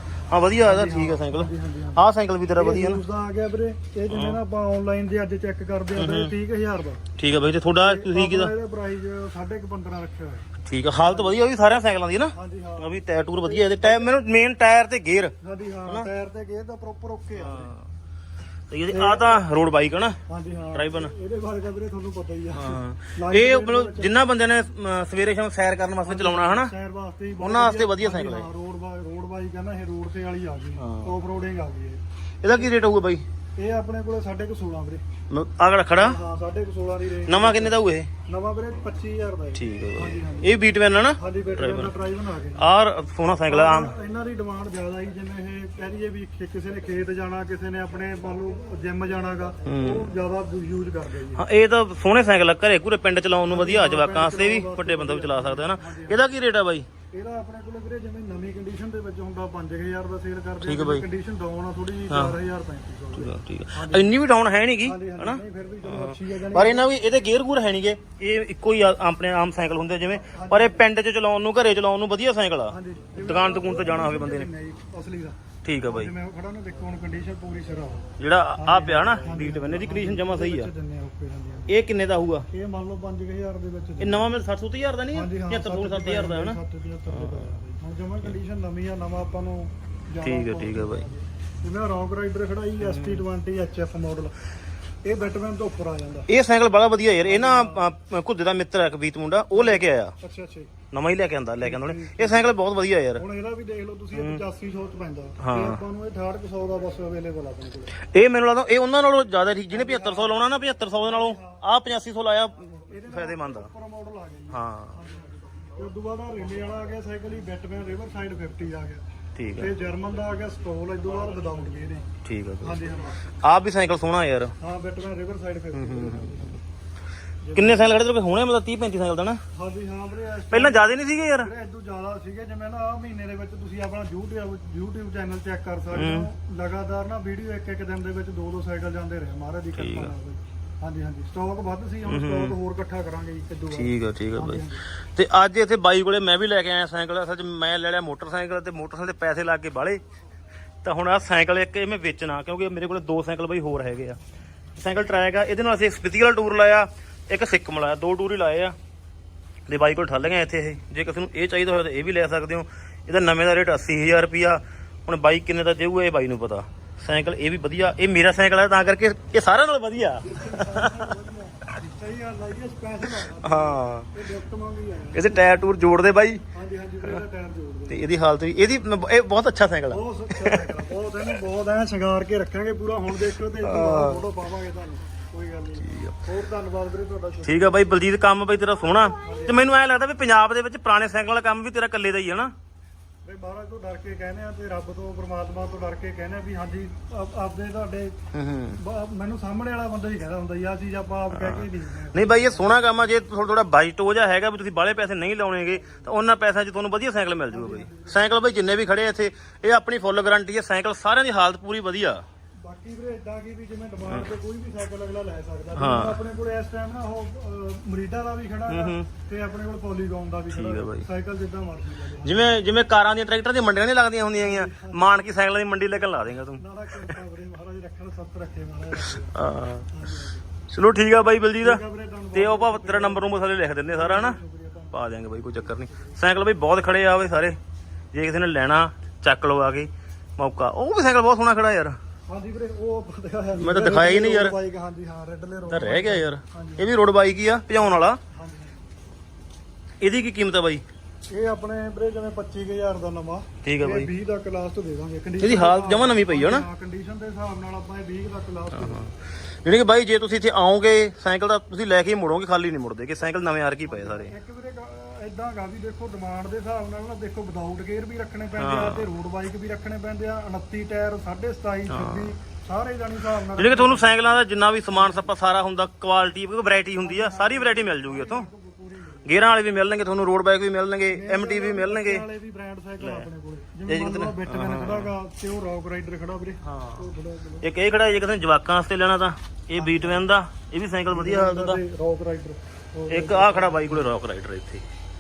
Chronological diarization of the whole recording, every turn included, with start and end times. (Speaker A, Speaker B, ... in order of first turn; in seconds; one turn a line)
Speaker A: 0.3-3.0
Speaker B: 0.6-7.0
Speaker A: 4.1-4.4
Speaker A: 6.0-6.3
Speaker A: 7.2-8.5
Speaker B: 7.8-10.5
Speaker A: 10.7-15.3
Speaker B: 11.0-11.4
Speaker B: 12.3-14.1
Speaker B: 15.4-17.7
Speaker A: 17.4-17.8
Speaker A: 18.7-20.2
Speaker B: 18.9-19.4
Speaker B: 20.3-24.1
Speaker A: 20.7-21.1
Speaker A: 22.5-26.7
Speaker B: 26.0-32.0
Speaker A: 27.4-28.5
Speaker A: 30.8-31.2
Speaker A: 32.4-33.2
Speaker B: 33.6-35.0
Speaker A: 35.3-36.2
Speaker B: 36.0-40.5
Speaker A: 37.3-38.1
Speaker A: 39.6-42.0
Speaker B: 41.2-42.7
Speaker A: 42.6-43.9
Speaker B: 43.5-51.5
Speaker A: 49.7-50.1
Speaker A: 51.3-56.9
Speaker B: 53.5-56.3
Speaker B: 57.1-64.2
Speaker A: 60.6-61.0
Speaker A: 62.1-62.4
Speaker A: 63.2-74.5
Speaker B: 64.8-66.9
Speaker B: 70.3-70.9
Speaker B: 72.7-81.8
Speaker A: 75.7-76.1
Speaker A: 78.2-80.7
Speaker A: 81.7-82.5
Speaker B: 82.5-84.3
Speaker A: 84.0-86.6
Speaker B: 85.1-94.3
Speaker A: 87.1-87.5
Speaker A: 90.2-91.1
Speaker A: 92.8-93.2
Speaker B: 95.0-96.3
Speaker A: 96.3-100.1
Speaker B: 97.2-97.9
Speaker B: 99.5-100.7
Speaker A: 100.9-103.2
Speaker B: 101.6-102.6
Speaker B: 103.2-108.0
Speaker A: 104.1-104.4
Speaker A: 105.4-105.8
Speaker A: 108.0-113.7
Speaker B: 109.7-110.4
Speaker B: 110.9-111.6
Speaker B: 112.7-119.0
Speaker A: 114.5-115.0
Speaker A: 119.4-119.7
Speaker B: 119.6-122.1
Speaker A: 122.2-122.8
Speaker B: 122.6-123.3
Speaker A: 123.4-124.5
Speaker B: 124.6-126.6
Speaker A: 125.7-126.5
Speaker B: 127.4-128.0
Speaker A: 127.5-129.4
Speaker B: 129.5-130.9
Speaker A: 130.5-131.5
Speaker B: 131.4-144.9
Speaker A: 135.9-136.3
Speaker A: 139.8-140.1
Speaker A: 142.1-142.6
Speaker A: 143.7-150.0
Speaker A: 150.8-154.2
Speaker A: 154.8-158.8
Speaker A: 159.7-171.1
Speaker B: 170.3-175.6
Speaker A: 173.2-174.1
Speaker A: 175.1-176.4
Speaker B: 176.5-178.1
Speaker A: 177.9-180.8
Speaker B: 179.9-188.0
Speaker A: 183.6-184.3
Speaker A: 185.8-186.2
Speaker A: 187.4-192.5
Speaker B: 189.2-189.7
Speaker B: 193.2-198.2
Speaker A: 198.3-198.8
Speaker B: 198.8-203.1
Speaker A: 201.3-212.2
Speaker B: 205.7-206.1
Speaker B: 207.5-208.5
Speaker B: 212.6-222.7
Speaker A: 215.8-216.2
Speaker A: 218.7-219.1
Speaker A: 220.5-221.1
Speaker A: 222.2-227.2
Speaker B: 224.4-225.3
Speaker B: 226.5-229.4
Speaker A: 229.1-229.9
Speaker B: 229.9-230.5
Speaker A: 230.7-231.8
Speaker B: 231.6-233.3
Speaker A: 232.3-234.4
Speaker B: 233.9-236.2
Speaker A: 234.9-237.6
Speaker A: 238.1-242.0
Speaker B: 242.3-246.9
Speaker A: 243.6-244.6
Speaker A: 245.7-248.2
Speaker B: 248.3-248.9
Speaker A: 250.0-250.8
Speaker B: 251.3-259.1
Speaker A: 253.6-254.1
Speaker A: 255.4-256.7
Speaker A: 258.7-259.1
Speaker A: 259.6-264.3
Speaker B: 263.9-274.3
Speaker A: 268.6-269.1
Speaker A: 271.9-272.3
Speaker A: 273.4-278.5
Speaker B: 274.9-275.3
Speaker B: 277.0-279.4
Speaker A: 279.2-282.3
Speaker B: 281.1-287.7
Speaker A: 283.0-283.3
Speaker A: 283.9-285.1
Speaker A: 286.6-287.1
Speaker A: 287.6-291.8
Speaker B: 289.8-290.3
Speaker B: 291.1-294.1
Speaker A: 293.1-294.8